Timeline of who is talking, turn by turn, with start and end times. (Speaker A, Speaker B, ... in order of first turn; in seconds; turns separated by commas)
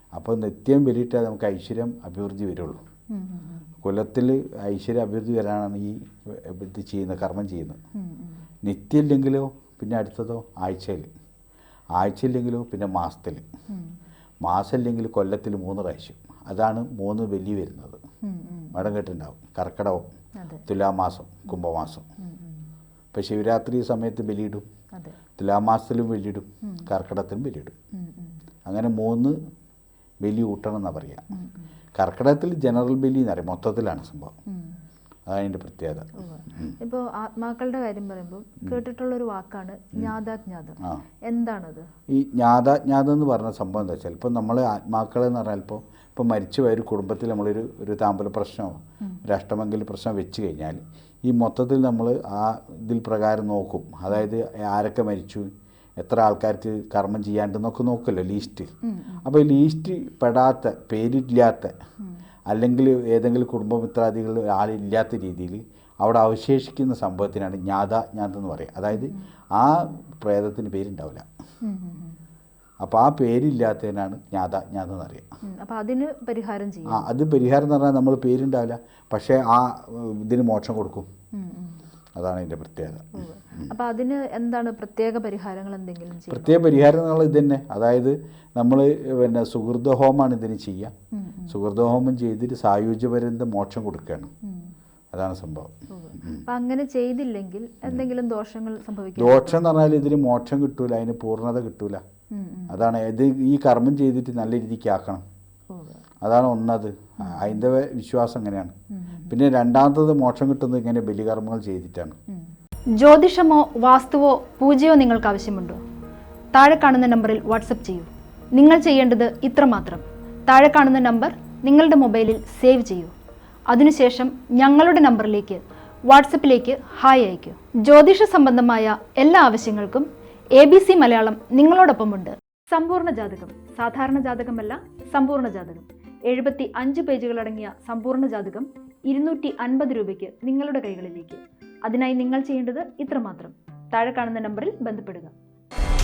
Speaker A: 0.1-2.8, Speaker B: 3.1-3.6, Speaker A: 3.8-7.8, Speaker B: 8.0-8.4, Speaker A: 8.6-11.1, Speaker A: 11.9-13.4, Speaker B: 13.7-14.0, Speaker A: 14.4-18.0, Speaker B: 18.2-18.9, Speaker A: 18.7-20.1, Speaker B: 20.4-20.6, Speaker A: 20.7-22.1, Speaker B: 22.2-22.6, Speaker A: 23.1-24.6, Speaker A: 25.4-27.8, Speaker B: 27.9-28.3, Speaker A: 28.7-29.4, Speaker A: 30.2-31.3, Speaker B: 31.3-31.6, Speaker A: 32.0-34.4, Speaker B: 34.5-34.8, Speaker A: 35.3-36.8, Speaker B: 36.2-41.9, Speaker A: 42.1-61.8, Speaker B: 58.9-59.3, Speaker A: 62.5-71.3, Speaker B: 71.6-72.2, Speaker A: 72.8-75.3, Speaker B: 75.5-77.1, Speaker A: 76.9-81.1, Speaker B: 81.3-81.8, Speaker A: 82.2-83.7, Speaker B: 83.2-86.6, Speaker A: 86.3-90.9, Speaker B: 91.2-91.6, Speaker A: 91.5-94.3, Speaker B: 94.4-94.7, Speaker A: 95.1-96.4, Speaker B: 95.9-99.7, Speaker A: 99.2-102.0, Speaker B: 102.3-102.8, Speaker A: 102.7-105.2, Speaker B: 105.7-106.0, Speaker A: 106.2-108.8, Speaker B: 107.2-107.6, Speaker B: 108.9-109.3, Speaker A: 109.3-112.2, Speaker B: 113.0-115.8, Speaker B: 116.5-123.1, Speaker B: 123.7-145.3